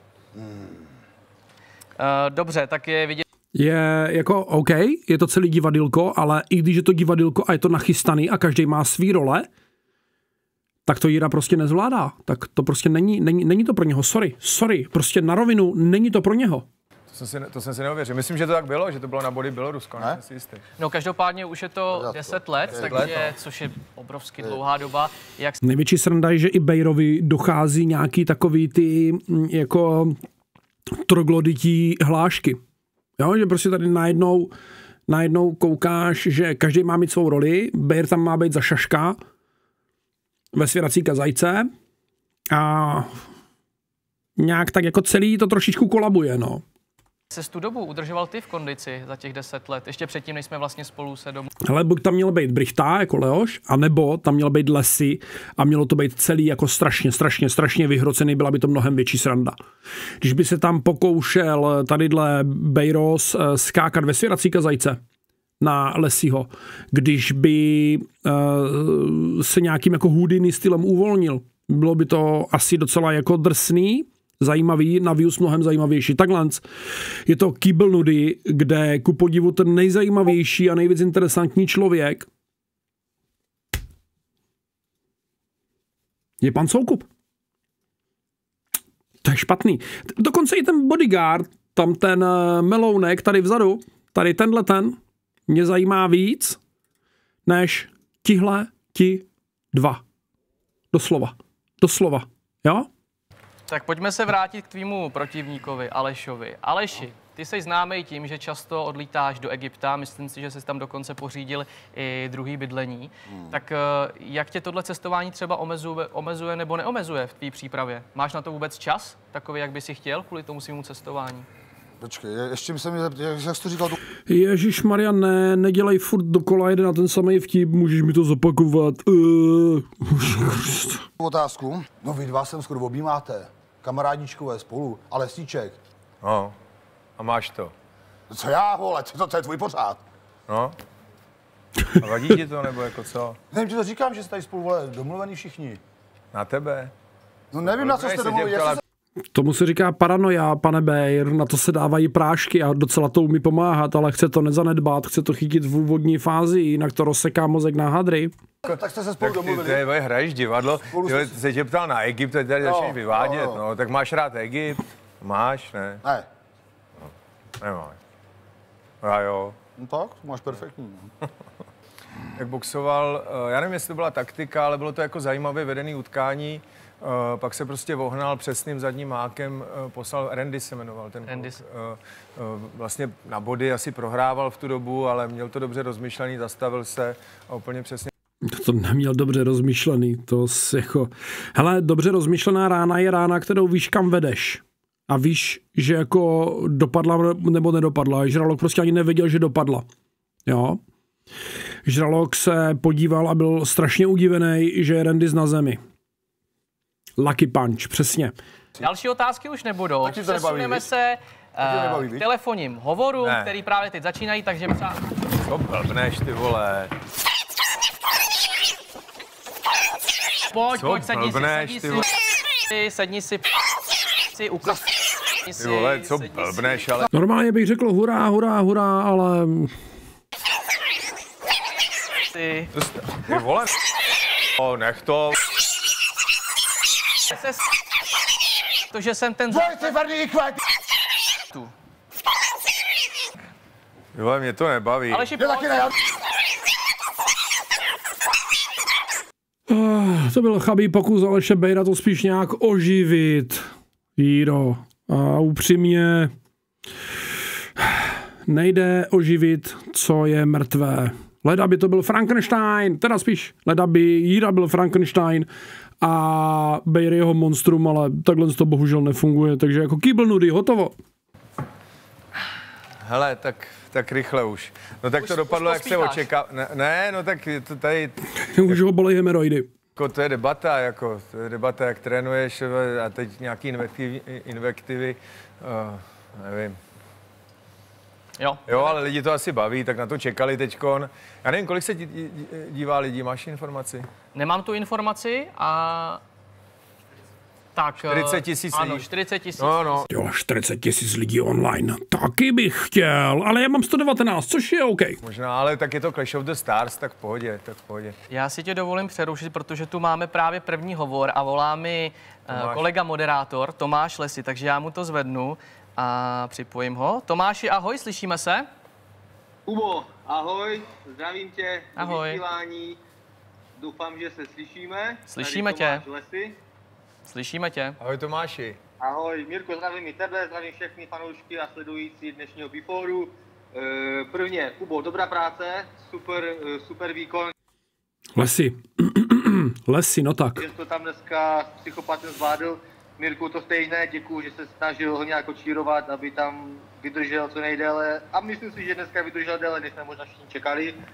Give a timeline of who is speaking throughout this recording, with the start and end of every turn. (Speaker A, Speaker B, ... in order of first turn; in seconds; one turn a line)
Speaker A: 0.3-0.9
Speaker B: 2.0-3.2
Speaker C: 3.5-9.5
Speaker C: 10.9-16.7
Speaker D: 17.1-20.6
Speaker B: 20.8-25.6
Speaker A: 21.9-23.1
Speaker D: 22.7-23.3
Speaker C: 25.6-30.2
Speaker C: 30.9-32.6
Speaker C: 33.2-34.5
Speaker C: 35.1-39.2
Speaker C: 40.5-41.7
Speaker C: 42.5-43.2
Speaker C: 44.4-46.6
Speaker B: 47.3-51.5
Speaker C: 51.6-59.6
Speaker C: 60.2-65.0
Speaker C: 65.6-76.6
Speaker C: 77.3-82.3
Speaker C: 86.4-87.1
Speaker C: 89.2-95.0
Speaker C: 95.5-96.6
Speaker C: 97.5-100.0
Speaker C: 100.9-102.9
Speaker B: 103.7-121.5
Speaker A: 113.3-113.6
Speaker A: 122.0-124.0
Speaker C: 124.3-131.1
Speaker A: 131.2-135.8
Speaker D: 136.2-136.6
Speaker D: 137.2-137.7
Speaker A: 138.3-140.0
Speaker D: 140.5-140.8
Speaker D: 142.0-143.4
Speaker A: 143.5-145.8
Speaker D: 146.3-146.9
Speaker A: 147.5-148.8
Speaker D: 147.6-148.8
Speaker C: 149.3-158.3
Speaker A: 158.6-159.9
Speaker D: 158.7-166.0
Speaker A: 160.9-161.4
Speaker A: 162.6-163.6
Speaker D: 167.6-168.0
Speaker D: 169.0-169.6
Speaker A: 169.8-171.1
Speaker D: 172.4-188.1
Speaker B: 181.3-181.6
Speaker C: 188.4-199.8
Speaker C: 200.5-200.8
Speaker C: 201.8-205.8
Speaker C: 207.2-208.3
Speaker B: 208.8-215.0
Speaker A: 210.0-210.9
Speaker A: 211.6-212.3
Speaker D: 213.2-213.5
Speaker D: 215.4-216.9
Speaker B: 220.5-222.1
Speaker D: 220.7-222.1
Speaker B: 222.7-223.6
Speaker B: 224.3-224.9
Speaker B: 225.4-226.9
Speaker D: 225.6-227.1
Speaker C: 227.1-229.8
Speaker B: 232.3-232.7
Speaker D: 232.7-233.8
Speaker D: 234.6-235.4
Speaker B: 237.3-237.6
Speaker B: 238.9-240.0
Speaker A: 239.5-240.6
Speaker D: 244.2-245.3
Speaker B: 245.1-245.9
Speaker A: 245.4-245.9
Speaker C: 249.7-256.3
Speaker C: 257.8-265.5
Speaker C: 266.0-270.9
Speaker D: 273.1-278.8
Speaker B: 275.2-276.3
Speaker C: 278.5-279.7
Speaker D: 280.0-286.8
Speaker B: 288.4-289.0
Speaker D: 288.7-294.1
Speaker B: 294.3-296.2
Speaker B: 297.8-300.1
Speaker D: 298.0-299.1
Speaker D: 299.6-300.1
Speaker C: 300.1-305.2
Speaker D: 305.2-308.1
Speaker B: 308.3-318.7
Speaker D: 312.5-312.9
Speaker E: 319.7-323.0
Speaker B: 322.0-322.4
Speaker E: 323.8-326.6
Speaker B: 325.3-326.0
Speaker B: 327.3-328.0
Speaker D: 328.0-328.8
Speaker E: 329.0-337.5
Speaker C: 338.4-340.7
Speaker E: 340.6-351.0